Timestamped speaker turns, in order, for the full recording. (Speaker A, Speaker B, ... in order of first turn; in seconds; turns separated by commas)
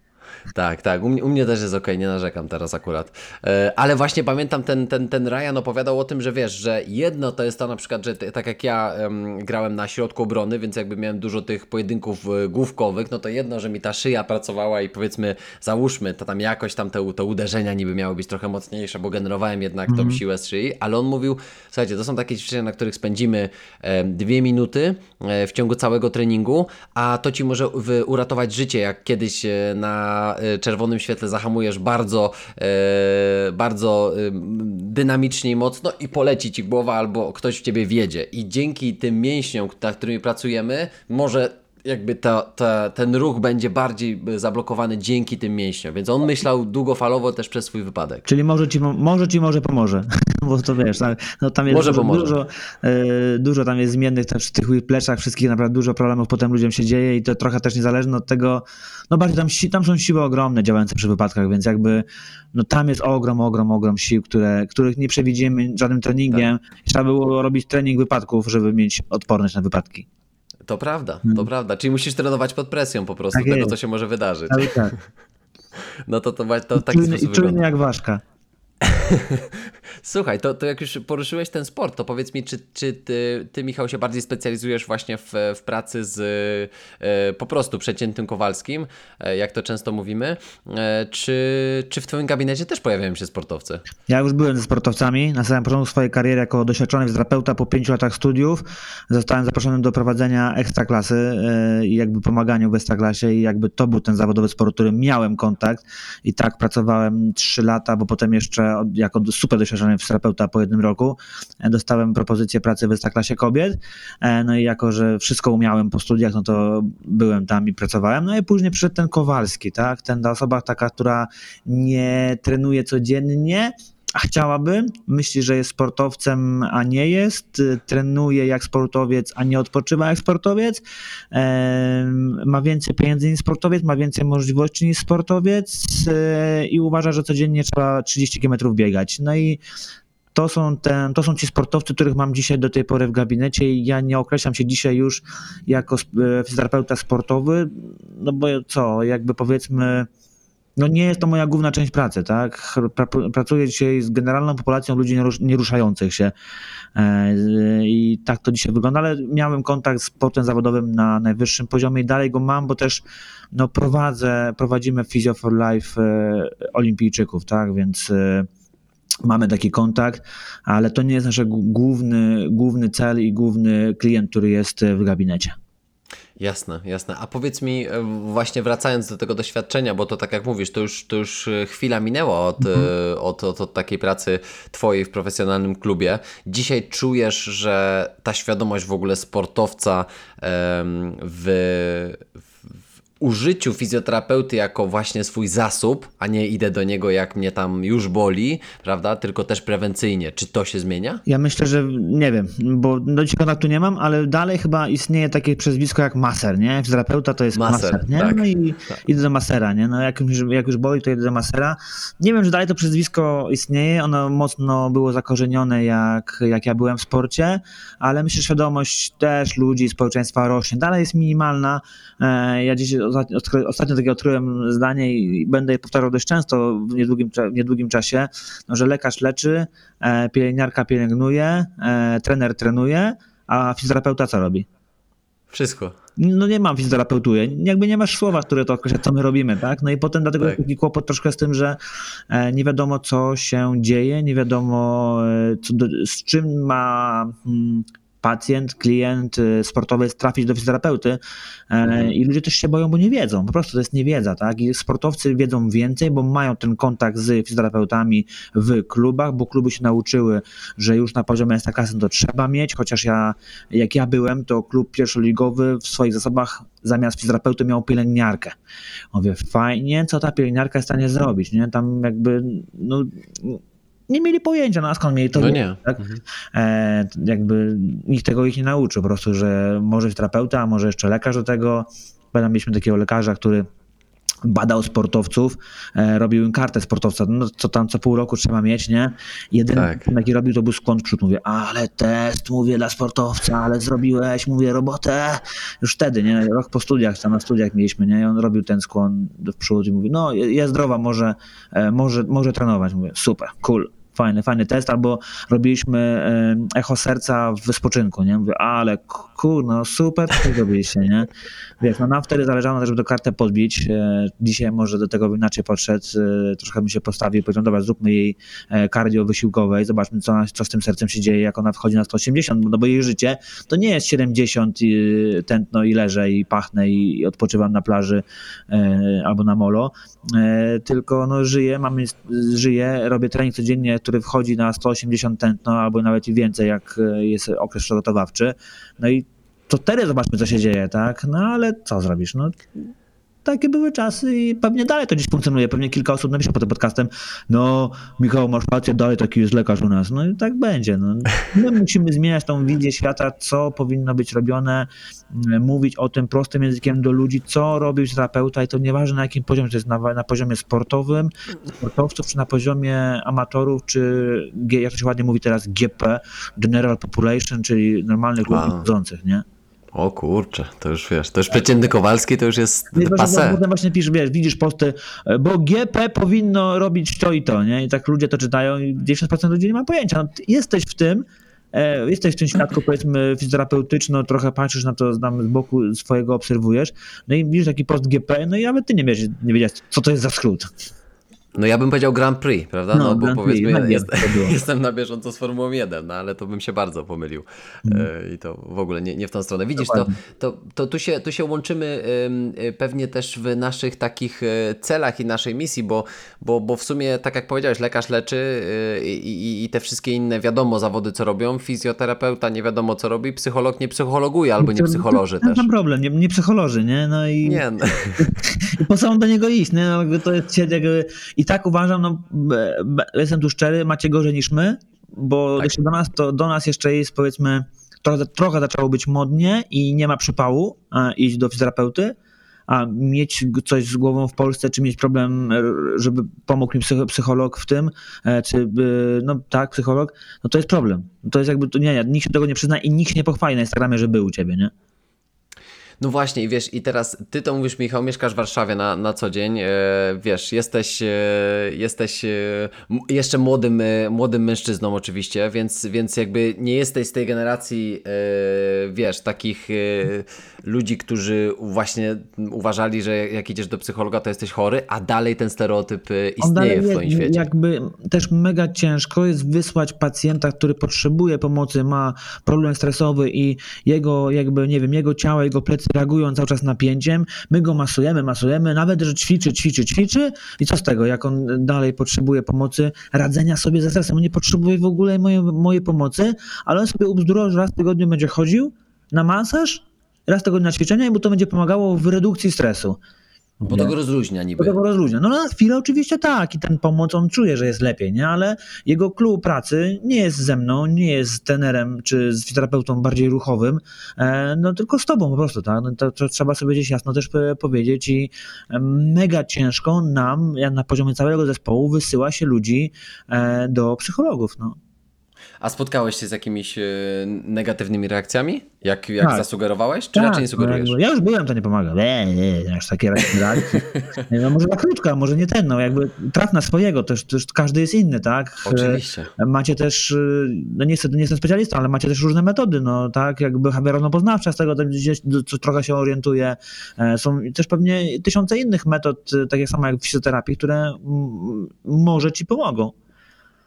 Speaker A: 0.5-48.3, Speaker B: 19.9-20.2, Speaker B: 48.3-70.1, Speaker A: 51.7-52.3, Speaker A: 70.7-74.8, Speaker B: 73.3-73.8, Speaker B: 74.5-74.9, Speaker A: 76.1-77.6, Speaker B: 76.8-78.2, Speaker A: 78.8-93.8, Speaker B: 94.1-139.6, Speaker B: 140.3-150.1, Speaker B: 150.8-156.3, Speaker B: 156.9-168.5, Speaker B: 169.2-175.6, Speaker A: 176.4-192.3, Speaker B: 182.6-182.9, Speaker A: 193.2-201.2, Speaker B: 201.3-234.7, Speaker A: 207.5-209.0, Speaker A: 235.5-235.9, Speaker B: 236.2-241.8, Speaker B: 242.3-268.6, Speaker A: 251.9-252.1, Speaker B: 269.1-276.0, Speaker A: 275.4-276.2, Speaker B: 276.5-283.7, Speaker B: 284.4-311.3, Speaker A: 289.7-290.1, Speaker B: 311.8-342.6, Speaker B: 343.4-369.4, Speaker A: 368.5-368.9, Speaker A: 369.9-373.6, Speaker B: 372.9-390.7, Speaker A: 391.6-415.7, Speaker B: 392.9-394.6, Speaker B: 399.8-400.1, Speaker B: 414.6-417.6, Speaker A: 417.4-418.3, Speaker B: 418.2-432.1, Speaker B: 432.7-444.7, Speaker A: 446.0-467.5, Speaker B: 466.4-493.0, Speaker A: 493.6-494.8, Speaker B: 493.6-493.9, Speaker B: 494.6-514.8, Speaker A: 515.6-521.0, Speaker B: 520.1-542.9, Speaker A: 523.3-524.2, Speaker A: 528.6-529.3